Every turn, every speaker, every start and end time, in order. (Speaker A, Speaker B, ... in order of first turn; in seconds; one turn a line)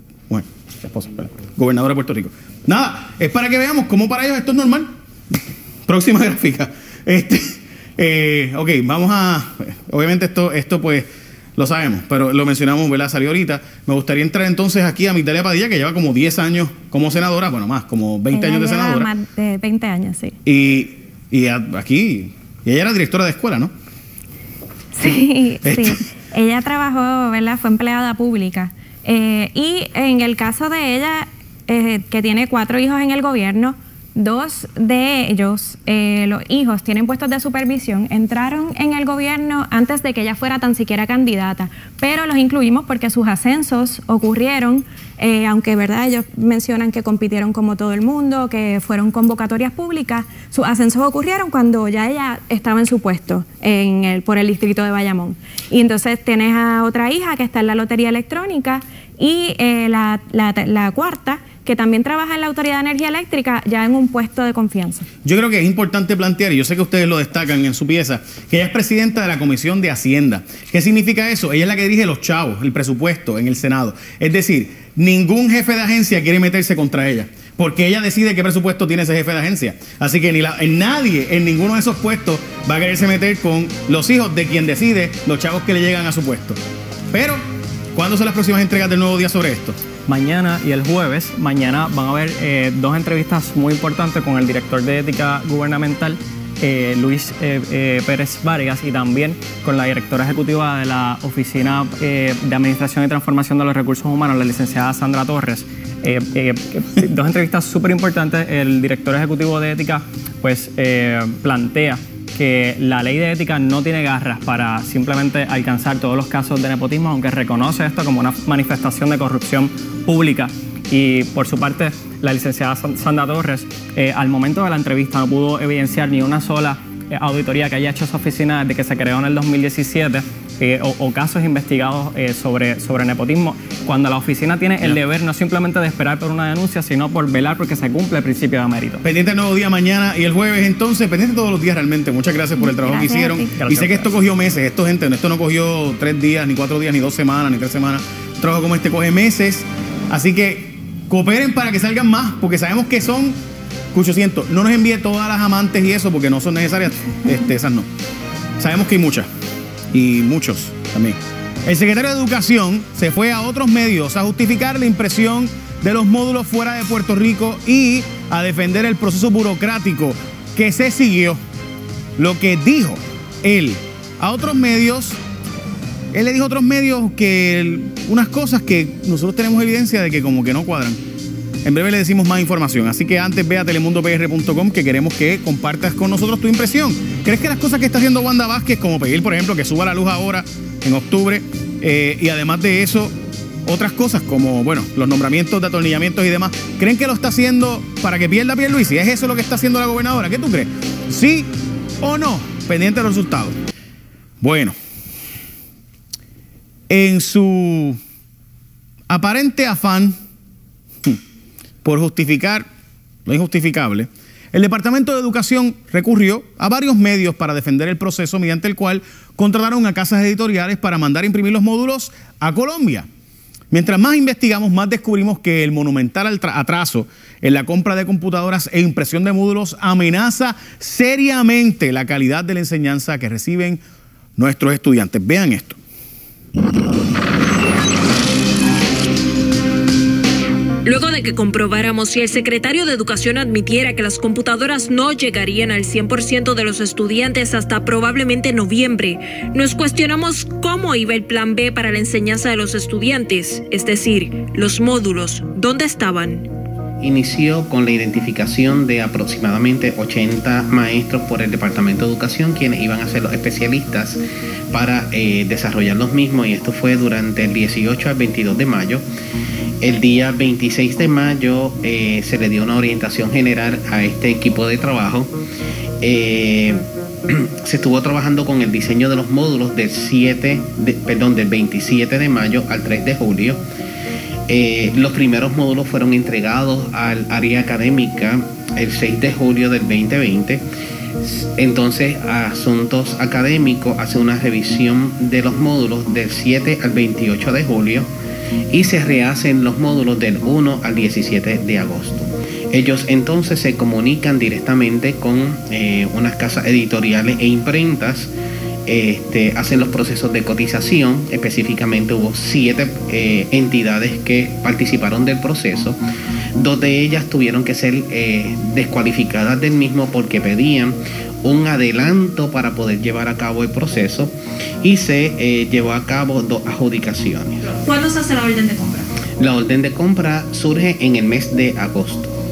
Speaker A: 0.3-19.1
Speaker B: 18.3-20.4
Speaker A: 20.4-23.7
Speaker B: 24.9-65.0
Speaker A: 25.6-26.0
Speaker A: 65.2-86.6
Speaker A: 87.1-87.4
Speaker A: 87.9-89.8
Speaker C: 90.1-139.0
Speaker A: 139.0-153.4
Speaker B: 142.6-143.5
Speaker C: 143.6-144.1
Speaker A: 153.9-157.9
Speaker A: 158.6-159.3
Speaker A: 159.9-171.4
Speaker A: 172.2-175.2
Speaker A: 176.1-181.0
Speaker A: 181.6-201.5
Speaker A: 202.0-203.6
Speaker A: 204.4-204.8
Speaker A: 206.9-208.0
Speaker A: 209.1-210.2
Speaker A: 211.8-212.7
Speaker A: 213.2-223.1
Speaker A: 223.7-233.8
Speaker A: 234.4-235.8
Speaker D: 240.8-256.5
Speaker E: 257.0-269.0
Speaker E: 269.8-275.4
Speaker E: 276.0-283.6
Speaker E: 284.5-290.6
Speaker E: 291.2-298.1
Speaker E: 298.7-308.3
Speaker E: 308.9-316.0
Speaker E: 316.6-327.6
Speaker D: 327.7-329.1
Speaker E: 329.4-332.4